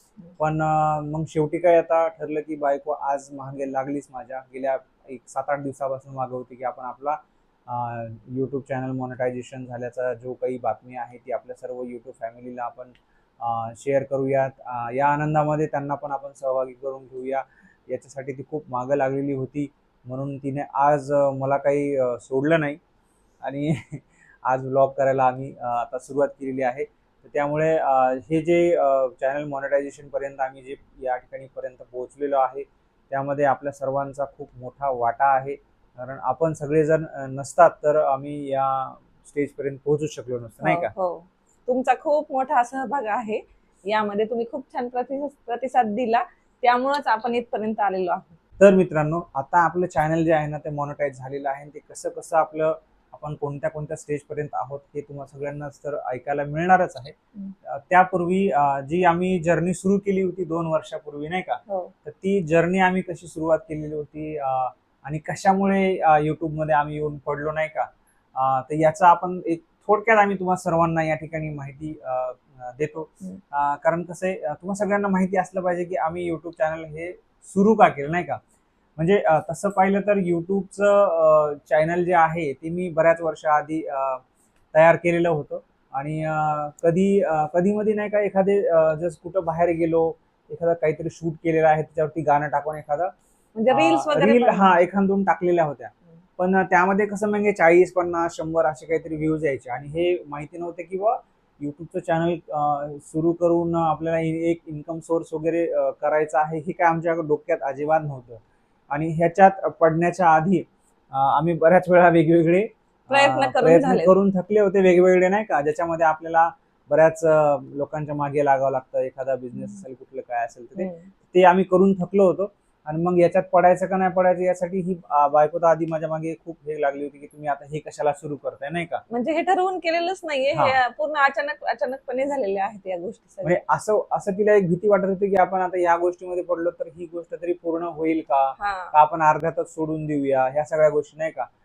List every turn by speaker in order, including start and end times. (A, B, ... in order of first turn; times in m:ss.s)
0:00.4-0:22.8 A
0:23.4-0:40.9 A
0:40.6-0:48.4 B
0:48.6-1:18.4 A
1:19.0-1:33.1 A
1:33.6-1:34.8 B
1:33.7-1:48.4 A
1:48.9-2:09.0 A
1:53.1-1:54.1 B
2:00.8-2:01.1 B
2:09.1-2:13.6 B
2:13.4-2:21.5 A
2:18.6-2:18.9 B